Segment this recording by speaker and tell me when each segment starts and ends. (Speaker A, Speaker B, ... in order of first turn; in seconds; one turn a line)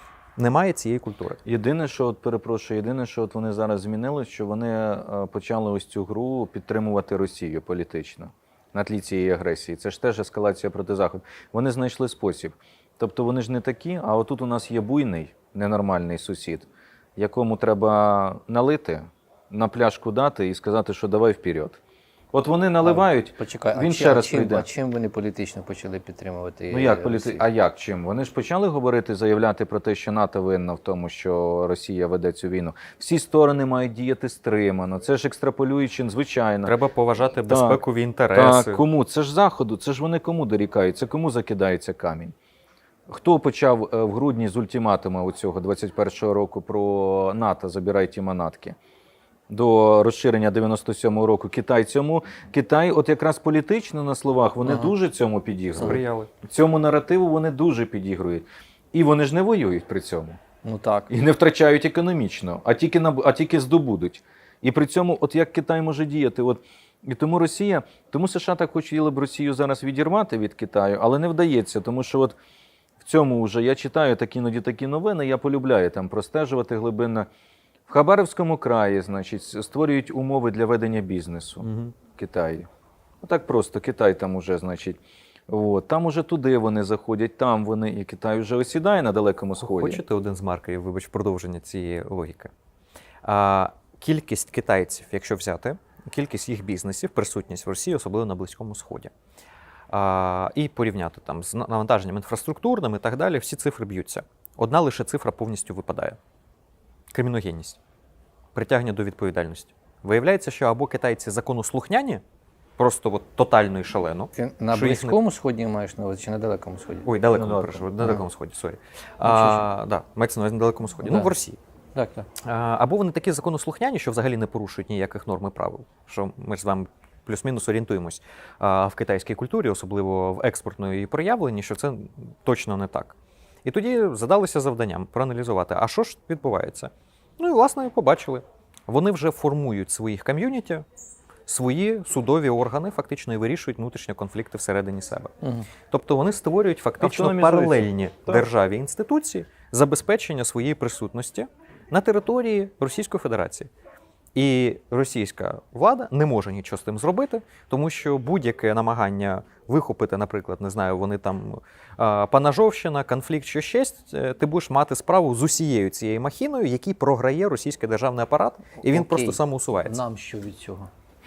Speaker A: 0.4-1.4
Speaker B: 1.4-21.8
Speaker B: 22.3-24.7
Speaker C: 22.8-27.4
Speaker B: 26.7-36.8
Speaker A: 36.6-38.8
Speaker B: 37.5-37.8
Speaker B: 38.3-42.3
Speaker B: 43.1-48.8
Speaker B: 49.5-60.4
Speaker C: 54.6-54.9
Speaker A: 55.8-56.3
Speaker C: 60.6-61.1
Speaker B: 61.1-72.4
Speaker B: 73.0-77.3
Speaker B: 77.9-82.7
Speaker A: 81.6-82.0
Speaker B: 83.2-90.0
Speaker A: 89.6-92.5
Speaker A: 93.2-99.1
Speaker A: 99.9-106.2
Speaker A: 107.1-107.8
Speaker A: 108.5-112.2
Speaker A: 112.8-115.2
Speaker C: 114.3-117.1
Speaker A: 117.1-121.6
Speaker B: 117.3-117.9
Speaker C: 119.2-119.7
Speaker C: 121.0-121.3
Speaker C: 122.0-122.3
Speaker A: 122.4-140.8
Speaker A: 141.5-145.3
Speaker C: 145.4-145.7
Speaker A: 145.9-153.7
Speaker B: 147.0-148.5
Speaker A: 154.3-170.0
Speaker C: 168.8-170.9